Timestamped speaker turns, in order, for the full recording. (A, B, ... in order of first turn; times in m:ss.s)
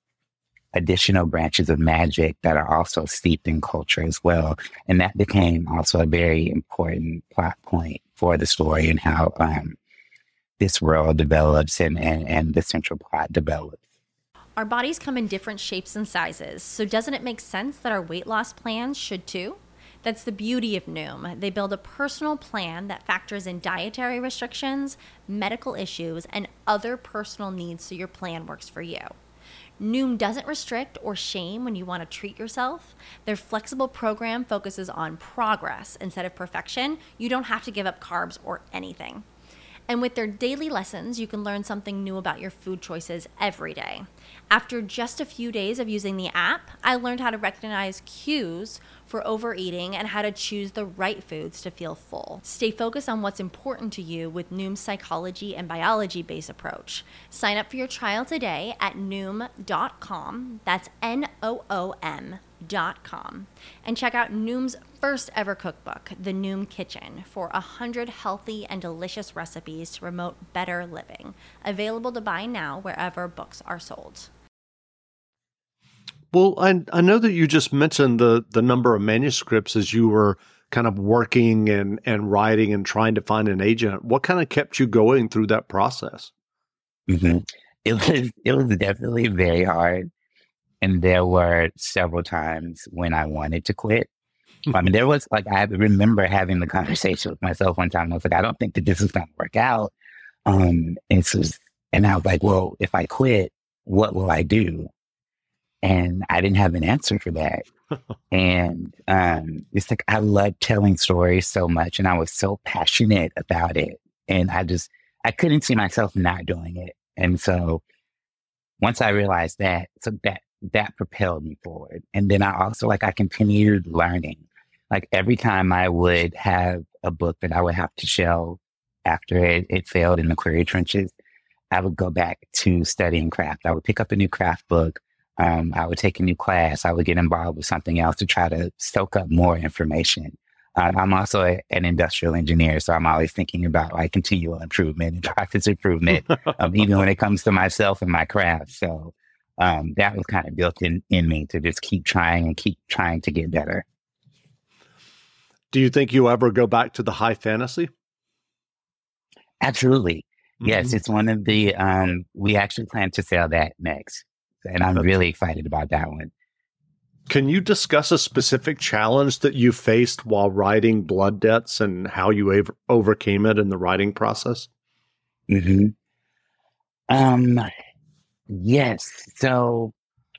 0:00.7-0:09.8 A
0:10.6-0:13.8 A
0:14.6-0:29.1 B
0:29.8-0:39.2 B
0:39.9-1:14.3 B
1:16.3-1:26.3 C
1:27.1-1:30.1 A
1:30.8-1:34.1 A
1:34.7-1:39.9 A
1:40.4-1:44.9 A
1:45.8-1:47.6 A
1:48.3-1:57.8 A
1:58.8-2:11.1 A
2:11.7-2:33.8 A
2:35.7-2:37.9 C
2:39.6-2:46.3 A
2:40.6-2:40.9 C
2:47.3-2:54.7 C
2:55.5-2:55.9 A
2:57.1-2:57.7 A
2:58.5-2:59.9 A